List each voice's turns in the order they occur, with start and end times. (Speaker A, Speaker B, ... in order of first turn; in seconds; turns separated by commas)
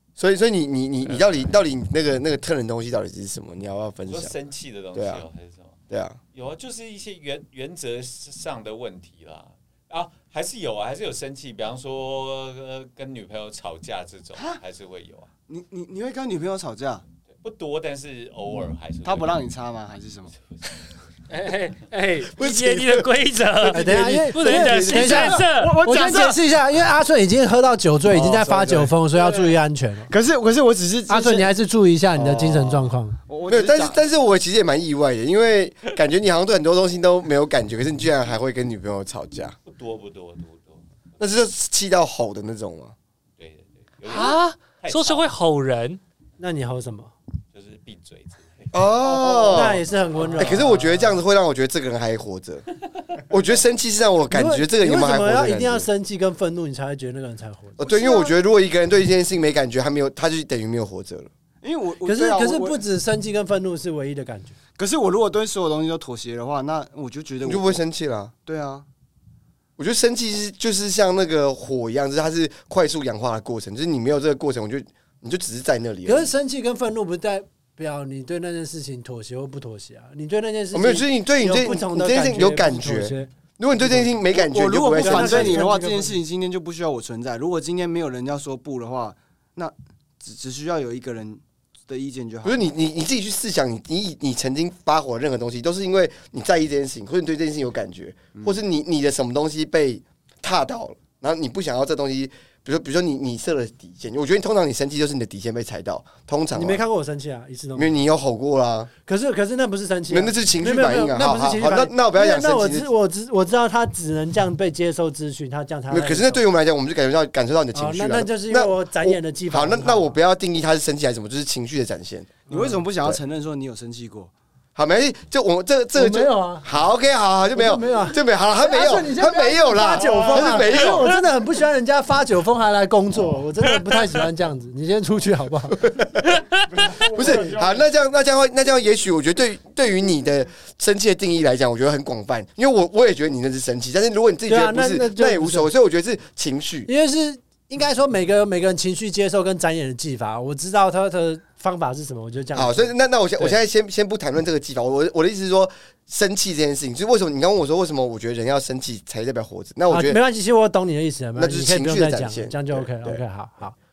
Speaker A: 0.2-4.3, Speaker B: 4.1-5.8, Speaker A: 4.9-5.2, Speaker A: 5.9-6.2, Speaker B: 6.3-15.3, Speaker C: 15.5-17.0, Speaker B: 17.4-19.4, Speaker C: 19.0-20.3, Speaker B: 20.5-20.8, Speaker D: 21.3-25.8, Speaker A: 22.3-23.1, Speaker E: 23.7-30.1, Speaker C: 23.8-26.4, Speaker A: 24.5-25.1, Speaker A: 28.1-28.9, Speaker C: 29.1-29.6, Speaker C: 30.1-31.5, Speaker E: 31.1-33.2, Speaker A: 32.1-32.9, Speaker C: 33.3-34.0, Speaker A: 33.5-39.5, Speaker B: 39.6-40.8, Speaker A: 41.2-42.9, Speaker B: 43.4-45.3, Speaker D: 44.1-46.0, Speaker E: 46.4-47.1, Speaker B: 47.5-48.8, Speaker A: 48.7-49.8, Speaker C: 49.0-49.8, Speaker E: 49.5-50.7, Speaker A: 50.4-52.6, Speaker D: 50.4-51.2, Speaker A: 53.2-55.9, Speaker E: 54.3-57.8, Speaker A: 57.8-61.3, Speaker C: 57.8-58.3, Speaker C: 61.6-62.8, Speaker E: 62.0-64.5, Speaker C: 64.8-67.8, Speaker A: 67.4-68.3, Speaker C: 68.4-68.8, Speaker A: 69.8-76.3, Speaker E: 76.0-84.1, Speaker A: 80.7-85.6, Speaker C: 84.3-92.6, Speaker E: 84.9-86.2, Speaker A: 92.4-106.8, Speaker C: 98.3-98.6, Speaker E: 106.5-107.9, Speaker A: 107.8-108.9, Speaker E: 109.1-116.4, Speaker A: 110.1-112.9, Speaker A: 115.9-122.4, Speaker E: 117.7-120.2, Speaker C: 122.5-124.3, Speaker E: 122.5-122.8, Speaker A: 124.7-131.1, Speaker E: 125.9-126.7, Speaker E: 127.5-135.9, Speaker A: 135.8-136.3, Speaker C: 136.7-137.9, Speaker A: 136.9-146.9, Speaker E: 144.5-145.7, Speaker E: 146.9-153.5, Speaker A: 152.5-160.2, Speaker E: 159.9-163.8, Speaker A: 161.3-163.2